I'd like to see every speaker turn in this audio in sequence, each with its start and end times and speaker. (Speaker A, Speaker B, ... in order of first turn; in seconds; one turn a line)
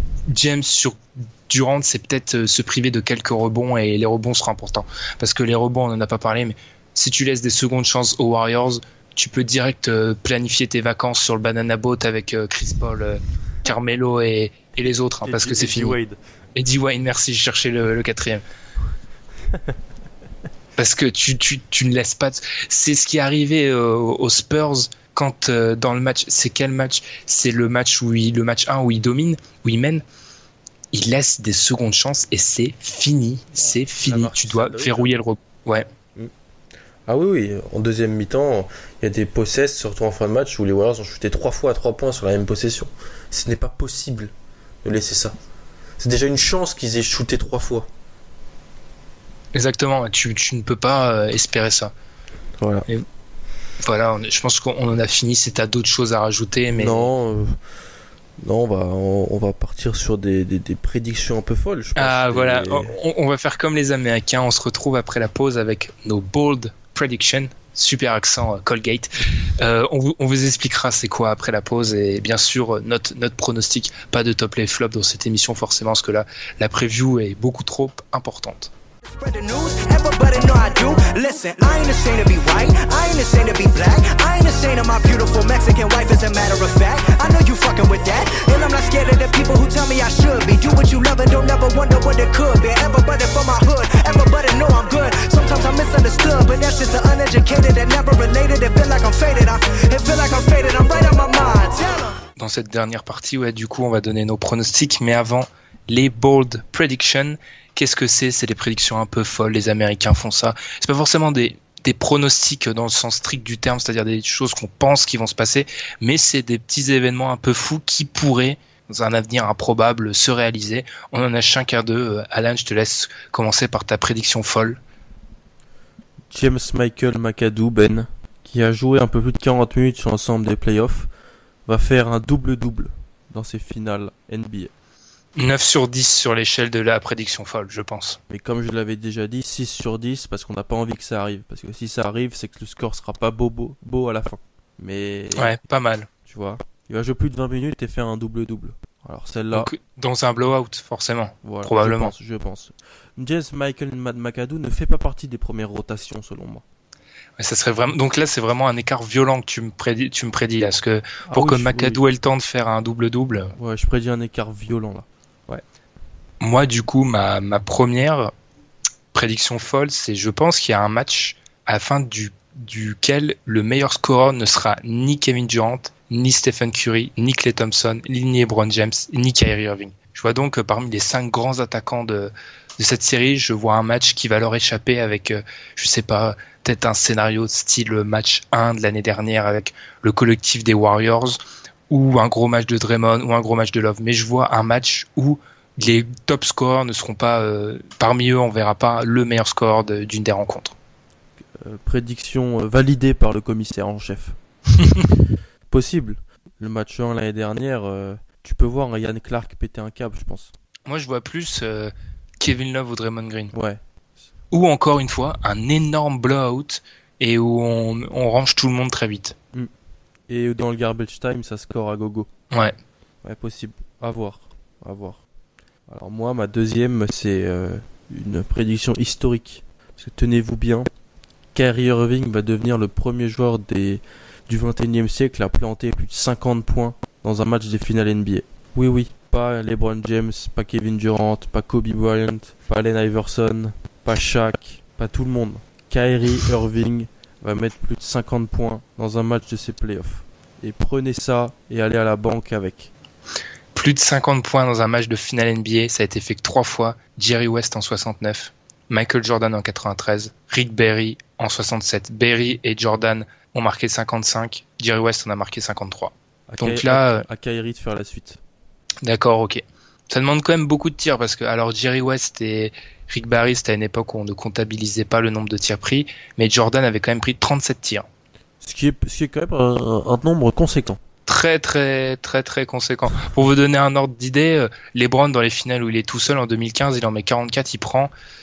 Speaker A: 0.3-16.0
Speaker B: 15.2-16.2
Speaker A: 16.5-18.4
Speaker A: 20.8-30.0
Speaker A: 30.9-35.9
Speaker B: 33.5-35.1
Speaker B: 37.0-45.4
Speaker B: 46.0-47.9
Speaker A: 49.5-51.9
Speaker B: 52.6-52.9
Speaker A: 53.8-57.1
Speaker B: 56.7-57.6
Speaker B: 58.4-62.9
Speaker A: 62.0-78.7
Speaker C: 79.2-102.2
Speaker A: 102.4-124.8
Speaker B: 126.3-131.1
Speaker B: 131.7-134.7
Speaker A: 135.4-138.2
Speaker B: 138.3-145.6
Speaker A: 145.3-146.1
Speaker B: 146.2-149.7
Speaker A: 149.5-152.1
Speaker B: 151.4-156.6
Speaker A: 157.4-163.5
Speaker B: 161.2-162.0
Speaker B: 163.6-165.6
Speaker A: 166.4-168.3
Speaker A: 169.1-200.7
Speaker B: 201.5-204.4
Speaker A: 204.8-205.1
Speaker B: 205.7-210.5
Speaker A: 210.9-213.5
Speaker B: 213.5-213.8
Speaker A: 214.5-219.3
Speaker B: 220.3-222.3
Speaker B: 223.2-225.2
Speaker B: 225.9-230.9
Speaker B: 231.5-252.9
Speaker A: 253.7-267.2
Speaker B: 266.5-268.4
Speaker A: 269.0-278.1
Speaker B: 278.6-281.0
Speaker A: 281.2-288.1